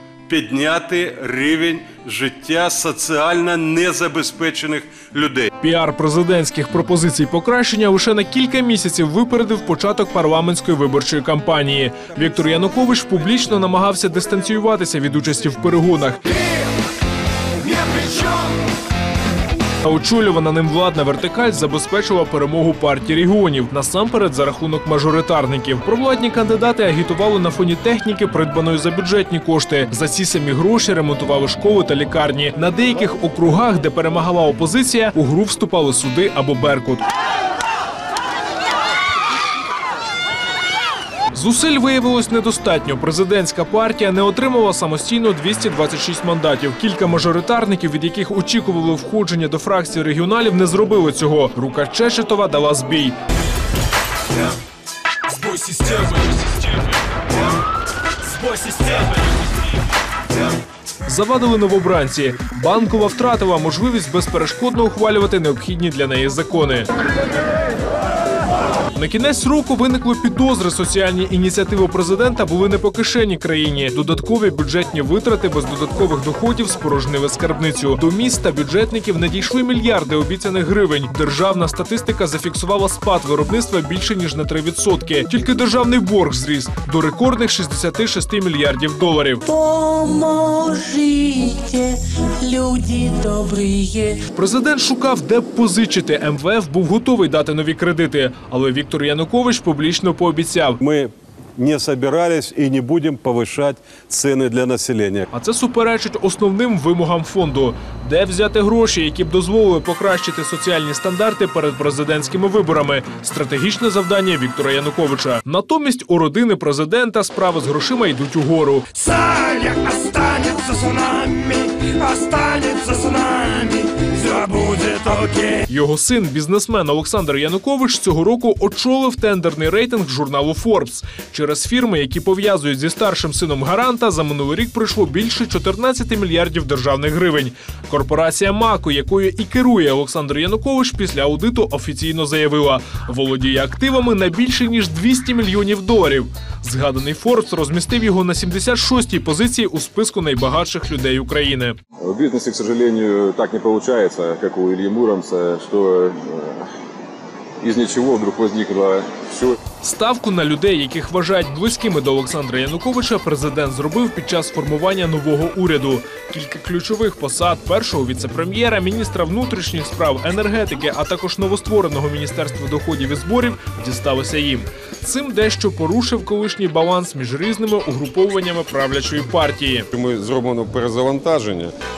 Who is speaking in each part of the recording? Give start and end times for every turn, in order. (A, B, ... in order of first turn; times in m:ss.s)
0:00.3-0:05.5 A
0:05.6-0:16.4 B
0:19.8-0:37.0 B
0:41.3-0:53.2 B
0:55.6-0:56.2 B
1:01.1-1:06.9 B
1:08.9-1:29.4 B
1:29.5-1:34.2 C
1:34.3-1:40.8 B
1:40.8-1:45.3 A
1:45.3-1:58.9 B
1:59.0-2:05.6 D
2:05.7-2:31.8 B
2:32.0-2:36.7 E
2:37.6-2:39.6 E
2:39.8-2:59.9 B
2:59.9-3:01.7 A